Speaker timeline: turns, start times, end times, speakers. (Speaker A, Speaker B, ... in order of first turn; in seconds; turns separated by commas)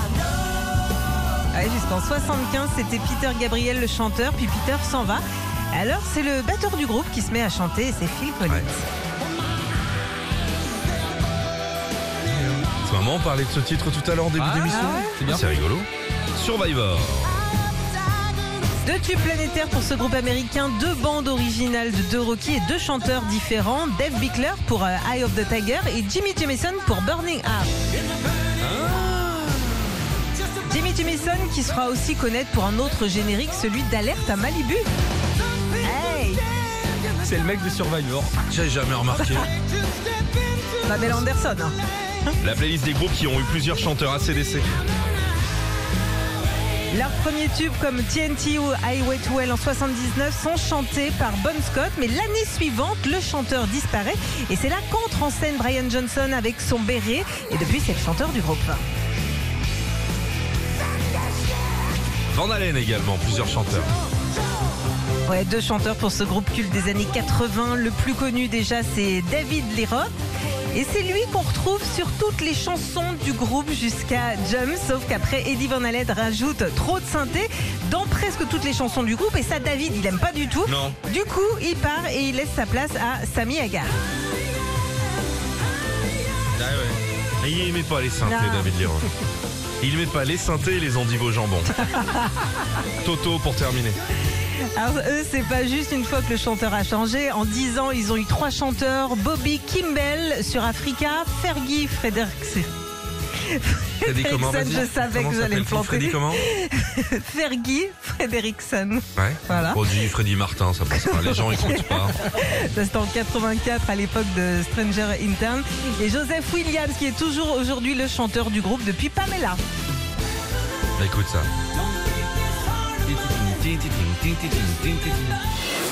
Speaker A: 1.5-8.8, Speaker B: 12.7-17.4, Speaker C: 14.4-15.4, Speaker A: 14.6-15.3, Speaker A: 18.8-27.7, Speaker B: 28.6-29.7, Speaker A: 30.6-34.8, Speaker A: 35.8-36.4, Speaker C: 37.2-38.3, Speaker B: 38.3-39.5, Speaker A: 40.8-42.3, Speaker B: 42.4-44.8, Speaker A: 46.9-58.8, Speaker B: 62.3-63.9, Speaker A: 65.2-70.1, Speaker A: 70.7-83.9, Speaker B: 80.7-81.0, Speaker B: 86.5-89.1, Speaker A: 88.2-88.7, Speaker B: 89.8-91.8, Speaker A: 91.8-92.5, Speaker B: 93.0-94.0, Speaker A: 94.7-102.7, Speaker A: 103.4-110.1, Speaker B: 104.0-106.5, Speaker B: 109.2-112.2, Speaker A: 110.9-119.6, Speaker B: 121.0-121.5, Speaker B: 123.0-125.4